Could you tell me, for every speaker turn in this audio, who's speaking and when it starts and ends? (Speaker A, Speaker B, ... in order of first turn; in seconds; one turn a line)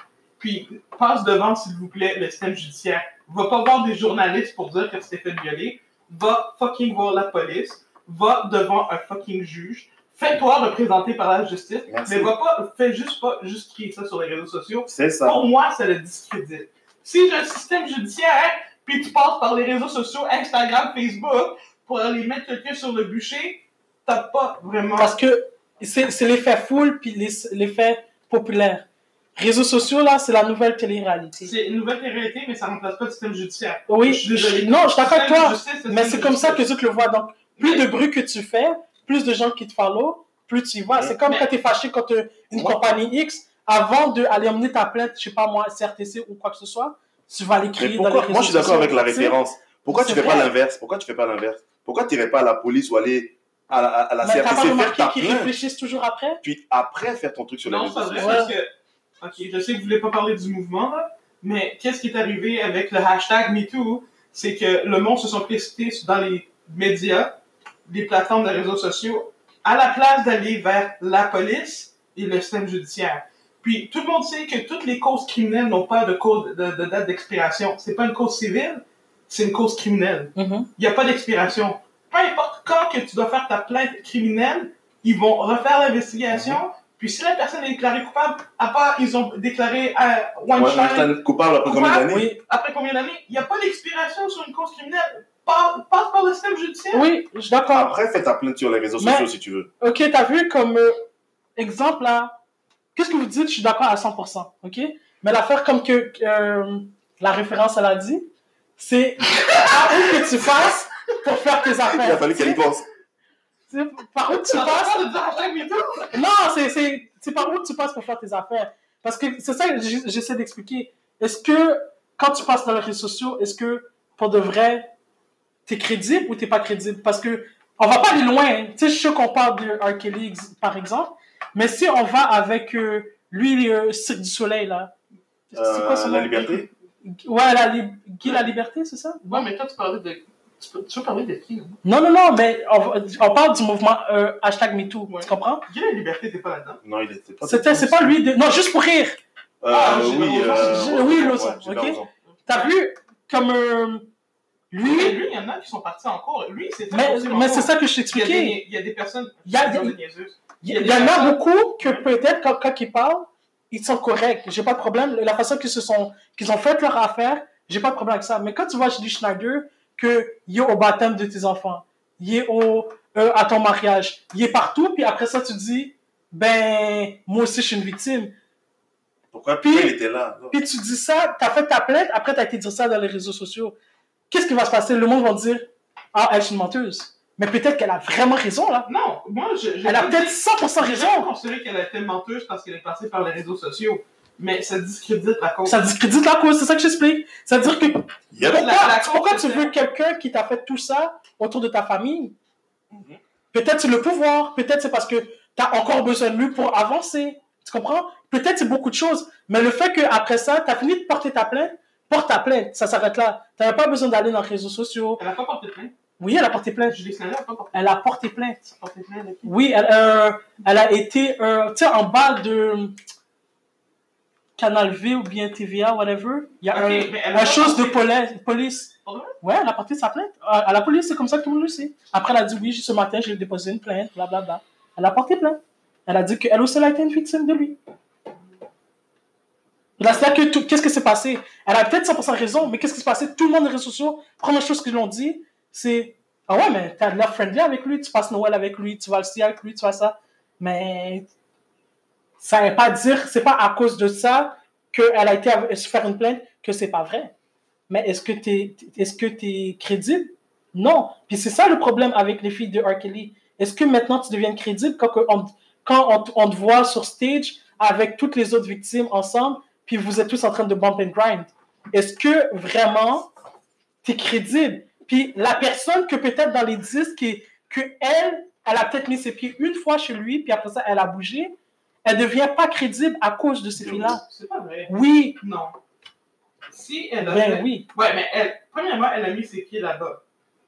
Speaker A: 0.4-25.1
Speaker B: 11.9-12.3
Speaker B: 14.9-15.4
Speaker C: 25.0-31.5
Speaker A: 31.5-36.7
Speaker C: 33.9-49.4
Speaker A: 37.6-37.9
Speaker B: 40.9-41.2
Speaker B: 42.5-42.8
Speaker B: 47.8-55.5
Speaker C: 49.9-50.5
Speaker C: 54.2-56.4
Speaker B: 56.4-58.5
Speaker A: 57.6-58.7
Speaker C: 58.2-58.5
Speaker A: 59.2-97.1
Speaker C: 80.4-80.7
Speaker B: 86.3-86.6
Speaker B: 90.5-92.3
Speaker C: 92.1-92.4
Speaker C: 96.9-97.9
Speaker B: 97.7-99.7
Speaker C: 99.0-99.3
Speaker C: 99.8-101.0
Speaker C: 101.6-102.3
Speaker C: 103.0-108.3
Speaker C: 108.8-112.6
Speaker B: 111.9-112.9
Speaker C: 113.7-115.0
Speaker A: 114.3-116.1
Speaker C: 116.1-124.9
Speaker C: 125.7-134.9
Speaker C: 135.5-139.5
Speaker B: 135.5-136.7
Speaker A: 139.3-141.8
Speaker C: 141.8-145.6
Speaker A: 145.1-146.8
Speaker B: 146.8-148.2
Speaker C: 147.4-149.2
Speaker B: 149.6-152.1
Speaker A: 149.7-150.9
Speaker C: 150.5-154.1
Speaker A: 152.4-152.7
Speaker C: 154.7-155.2
Speaker A: 154.8-162.1
Speaker C: 156.9-158.6
Speaker C: 159.5-160.0
Speaker C: 160.6-178.3
Speaker B: 179.3-180.6
Speaker C: 179.6-179.9
Speaker C: 180.5-183.8
Speaker C: 184.3-188.9
Speaker A: 188.9-195.8
Speaker C: 189.8-191.3
Speaker C: 195.7-202.3
Speaker B: 198.3-198.7
Speaker A: 198.4-199.7
Speaker B: 202.9-203.2
Speaker C: 203.5-215.2
Speaker A: 215.2-215.9
Speaker C: 216.2-217.0
Speaker A: 216.9-217.9
Speaker C: 217.7-218.7
Speaker A: 218.7-219.6
Speaker C: 219.4-223.0
Speaker C: 224.6-237.8
Speaker A: 226.7-228.1
Speaker A: 229.1-229.4
Speaker C: 240.0-251.3
Speaker C: 252.4-257.3
Speaker C: 257.9-273.3
Speaker C: 274.0-281.5
Speaker C: 282.1-284.2
Speaker B: 283.8-284.2
Speaker A: 284.2-285.8
Speaker C: 284.9-285.4
Speaker A: 286.7-290.2
Speaker C: 287.2-287.9